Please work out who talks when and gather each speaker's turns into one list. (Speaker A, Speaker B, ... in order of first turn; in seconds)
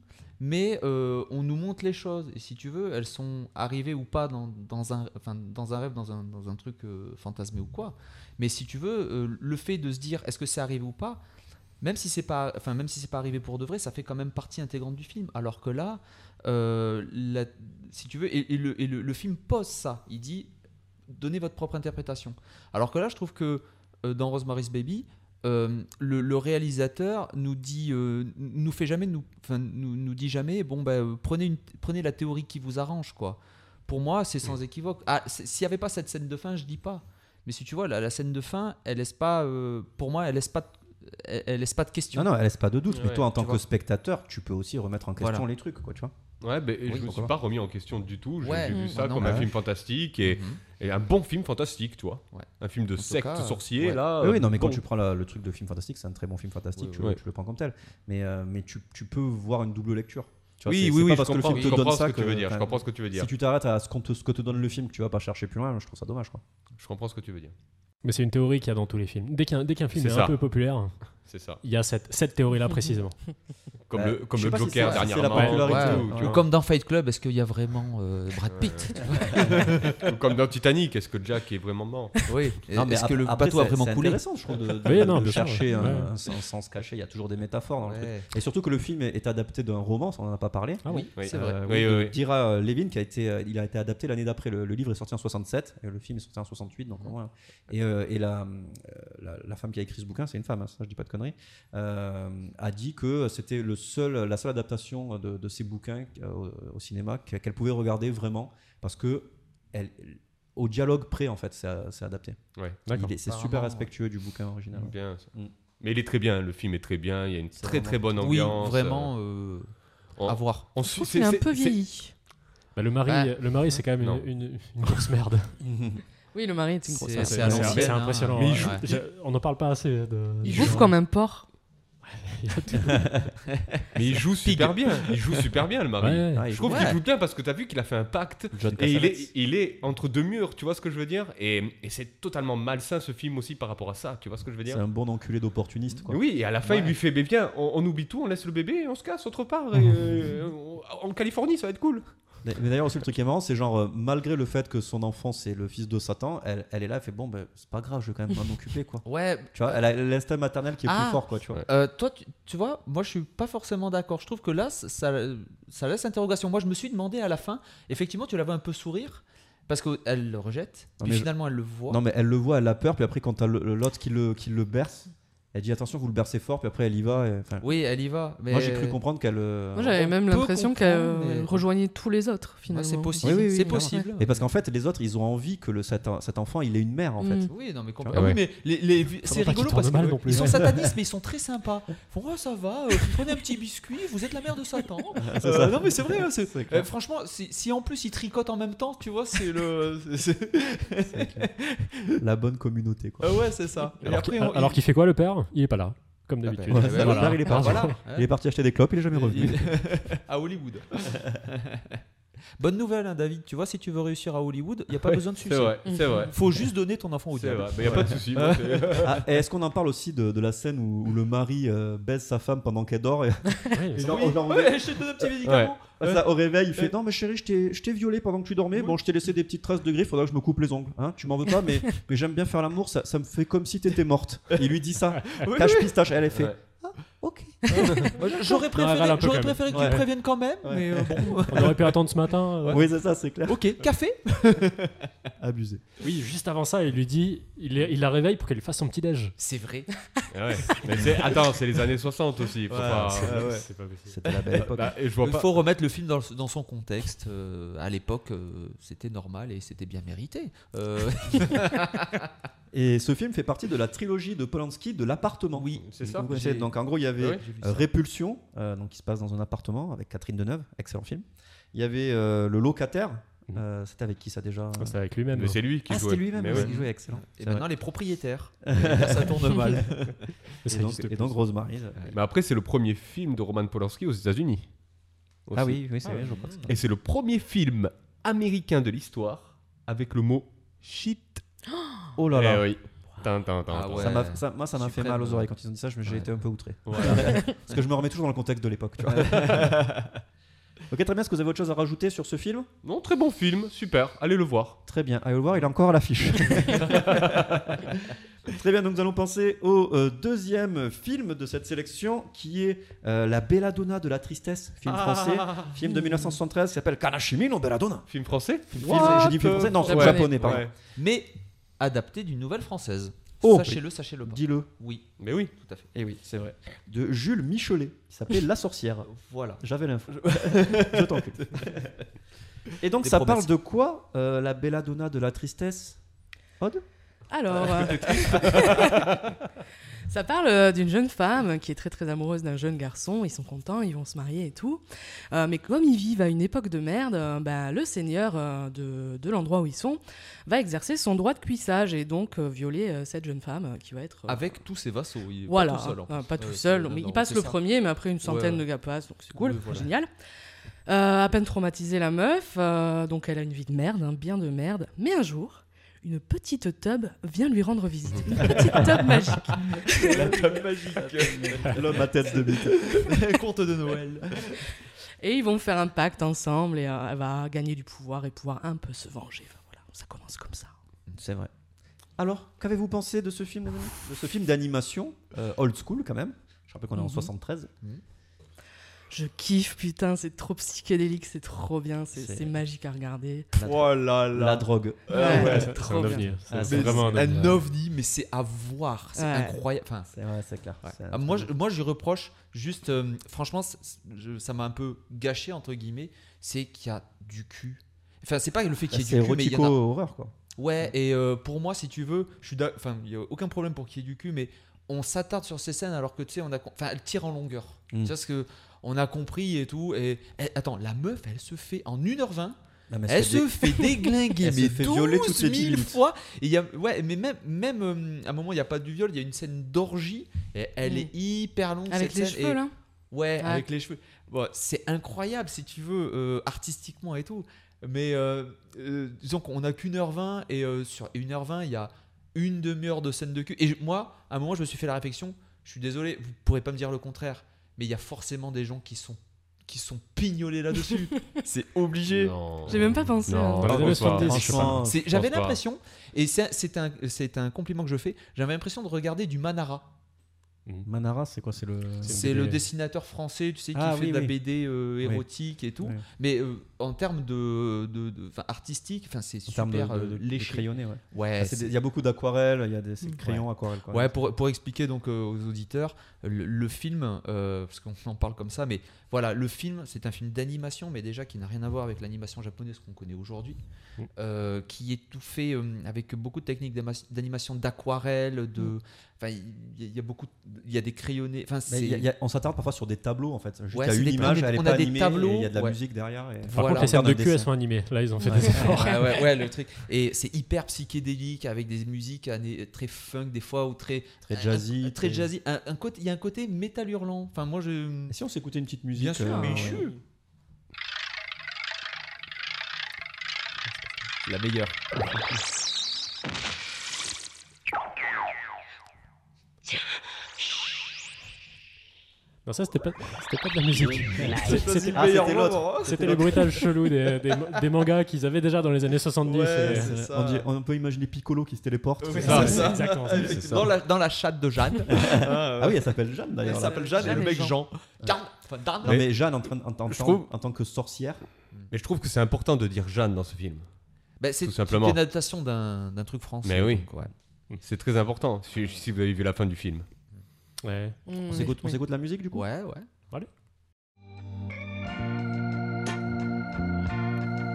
Speaker A: 0.4-11.2, 11.8-20.5, 21.1-42.3, 43.3-43.6, 45.2-45.5, 48.4-49.5, 50.2-50.6, 52.3-54.0, 56.8-57.0, 61.4-61.8, 74.8-79.8, 82.3-84.2, 87.8-88.3, 90.9-91.6, 113.2-113.9, 118.2-119.7, 120.2-120.7, 123.0-123.8, 126.9-128.9, 130.4-130.8, 134.4-135.1, 136.6-137.0, 146.6-146.9, 159.0-159.8, 160.8-172.0, 177.6-179.0, 179.9-181.6, 182.7-184.5, 187.5-202.2, 203.2-204.8, 206.4-208.3, 209.1-212.0, 212.6-219.2, 224.0-226.9, 235.3-235.9, 237.9-241.9, 243.4-245.1, 249.4-249.9, 252.7-253.7, 255.2-262.2, 265.5-267.9, 276.5-280.3, 286.0-286.7, 293.7-295.5, 299.2-300.1, 318.8-325.9, 329.1-329.6, 330.2-331.7, 333.0-333.5, 337.6-338.7, 354.3-357.6, 358.2-358.6, 359.3-359.9, 369.9-374.6, 393.6-394.5, 395.1-400.1, 400.8-409.8, 410.6-432.6, 433.1-452.3, 454.8-459.9, 462.1-471.8, 473.2-483.6, 484.1-492.1, 493.7-495.8, 496.4-496.9, 498.6-508.1, 508.9-510.0, 514.2-514.8, 524.2-526.5, 529.2-530.5, 532.0-535.8, 536.4-539.1, 544.2-547.1, 552.3-552.9
Speaker B: 42.1-46.1, 46.9-47.3, 49.2-49.5, 54.2-66.4, 73.9-76.3, 82.7-115.5, 117.5-118.0, 125.6-126.0, 127.2-128.0, 136.3-136.9, 138.5-139.3, 144.7-146.2, 152.4-161.6, 171.0-171.3, 171.9-177.7, 178.5-180.0, 183.2-187.5, 195.2-196.9, 201.1-201.5, 202.2-203.5, 206.7-209.8, 219.0-225.3, 226.0-238.1, 239.7-240.0, 240.6-241.3, 242.7-243.7, 245.4-245.8, 254.1-254.9, 262.7-275.0, 275.9-277.7, 278.6-280.1, 280.6-282.2, 285.5-286.8, 292.1-292.7, 294.0-299.8, 300.9-302.7, 304.9-307.9, 308.4-318.1, 318.7-320.7, 323.4-324.7, 325.9-332.0, 332.8-336.0, 337.7-338.4, 368.5-368.8, 369.9-373.1, 381.2-381.5, 382.2-387.7, 392.1-392.6, 393.5-395.1, 396.5-397.4, 400.1-401.5, 408.9-410.3, 422.9-426.0, 453.6-455.1, 460.8-462.2, 463.7-464.3, 469.5-474.2, 491.7-497.5, 498.2-498.8, 504.2-505.3, 508.1-509.9, 524.2-526.5, 529.6-533.0, 534.9-538.1, 538.8-541.2, 551.3-552.4
Speaker C: 42.9-43.2, 46.4-54.8, 60.6-63.3, 66.8-67.5, 69.9-70.3, 71.1-71.6, 73.9-76.4, 78.5-79.0, 79.6-82.2, 91.2-92.1, 112.5-112.8, 114.7-115.3, 115.8-119.1, 120.2-121.8, 124.0-124.2, 128.3-128.8, 133.9-144.8, 146.1-152.1, 215.1-216.3, 217.3-219.1, 225.4-225.7, 250.3-253.5, 254.5-255.5, 265.8-266.3, 275.3-276.7, 282.1-284.7, 285.5-285.8, 286.7-291.4, 292.3-294.2, 296.9-297.4, 302.8-304.8, 306.8-307.6, 314.9-315.8, 318.1-320.7, 325.2-325.5, 393.6-394.6, 395.1-396.1, 452.1-455.6, 532.3-532.6, 533.3-533.7, 537.0-537.6, 539.9-540.2, 541.7-543.7, 544.4-545.0, 546.4-546.9, 547.6-549.9
Speaker D: 68.0-73.2, 75.3-76.0, 84.8-86.1, 90.8-91.1, 112.9-113.1, 122.7-125.5, 127.1-130.9, 132.0-133.2, 136.0-136.5, 188.1-188.4, 189.2-190.9, 204.0-208.0, 223.7-224.2, 238.7-240.1, 241.5-242.8, 246.0-249.3, 252.8-254.1, 274.8-275.6, 280.6-281.4, 395.3-397.6, 453.6-454.9, 462.0-462.6, 496.5-499.2, 522.4-525.2, 525.8-529.9, 532.2-533.4, 550.6-551.0
Speaker E: 120.8-122.1, 126.3-127.6, 130.4-131.5, 179.7-184.1, 187.2-187.5, 215.9-216.3, 319.0-320.5, 337.3-339.3, 340.1-354.6, 355.5-360.1, 360.9-370.1, 375.2-380.7, 386.9-387.3, 389.1-393.5, 395.1-396.2, 399.1-399.6, 430.8-431.1, 431.9-432.7, 433.4-433.6, 452.7-454.2, 498.2-498.8, 509.3-509.9, 537.2-537.5, 551.1-551.8